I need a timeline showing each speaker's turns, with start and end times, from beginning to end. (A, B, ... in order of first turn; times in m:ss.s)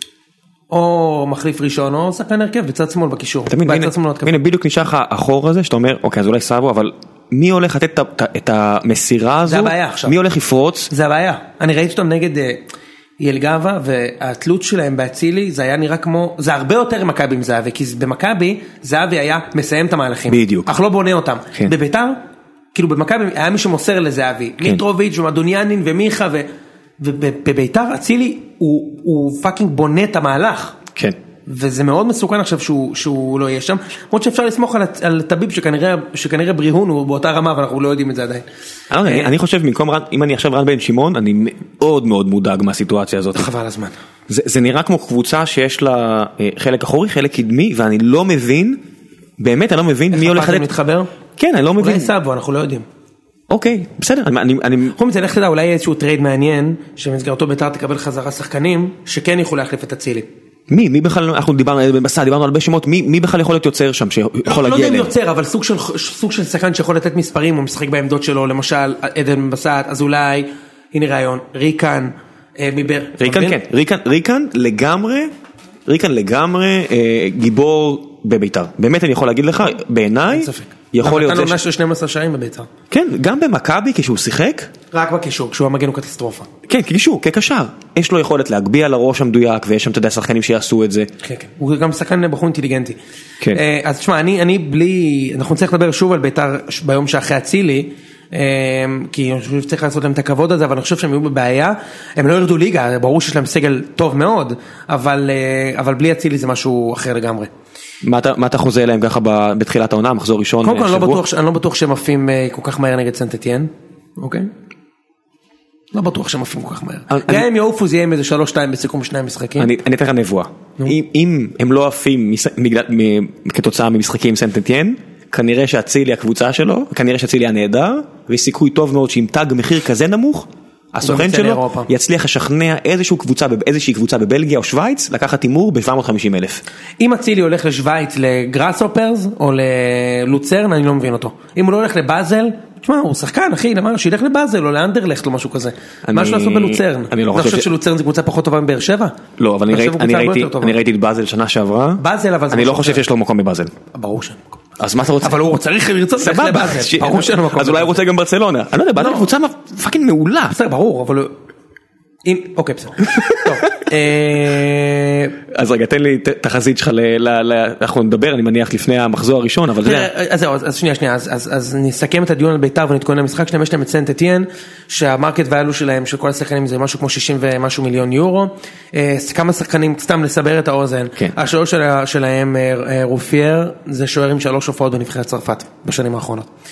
0:00.7-0:04.4 A
0:03.5-0:10.9 B
0:09.5-0:10.2 A
0:10.9-0:12.6 A
0:13.2-0:22.2 A
0:20.3-0:20.7 B
0:22.7-0:26.5 A
0:27.0-0:30.8 A
0:31.5-0:38.4 A
0:38.9-0:43.5 B
0:39.0-0:39.3 A
0:43.4-0:44.0 A
0:44.3-0:48.8 B
0:49.4-0:50.7 B
0:50.1-0:51.1 A
0:51.4-0:52.1 B
0:51.8-0:52.8 A
0:53.5-0:55.0 B
0:55.0-1:00.3 A
1:00.7-1:05.1 B
1:04.4-1:13.6 A
1:13.2-1:15.3 B
1:15.9-1:21.6 B
1:20.3-1:22.7 A
1:22.9-1:24.7 B
1:24.9-1:26.5 A
1:26.7-1:31.1 B
1:31.2-1:33.0 A
1:33.5-1:47.5 A
1:48.0-1:51.2 B
1:50.6-1:54.5 A
1:55.9-1:59.7 A
1:57.1-1:57.5 B
1:59.6-2:16.6 B
2:11.0-2:11.9 A
2:17.0-2:29.2 A
2:26.1-2:27.7 B
2:29.4-2:33.7 B
2:29.7-2:30.8 A
2:32.0-2:33.0 A
2:33.9-2:34.6 A
2:34.8-2:35.4 B
2:35.2-2:38.0 A
2:36.2-2:40.6 B
2:39.0-2:39.3 A
2:40.5-2:41.3 A
2:42.2-2:45.4 A
2:43.1-2:43.5 B
2:45.5-2:50.1 B
2:49.8-3:06.5 A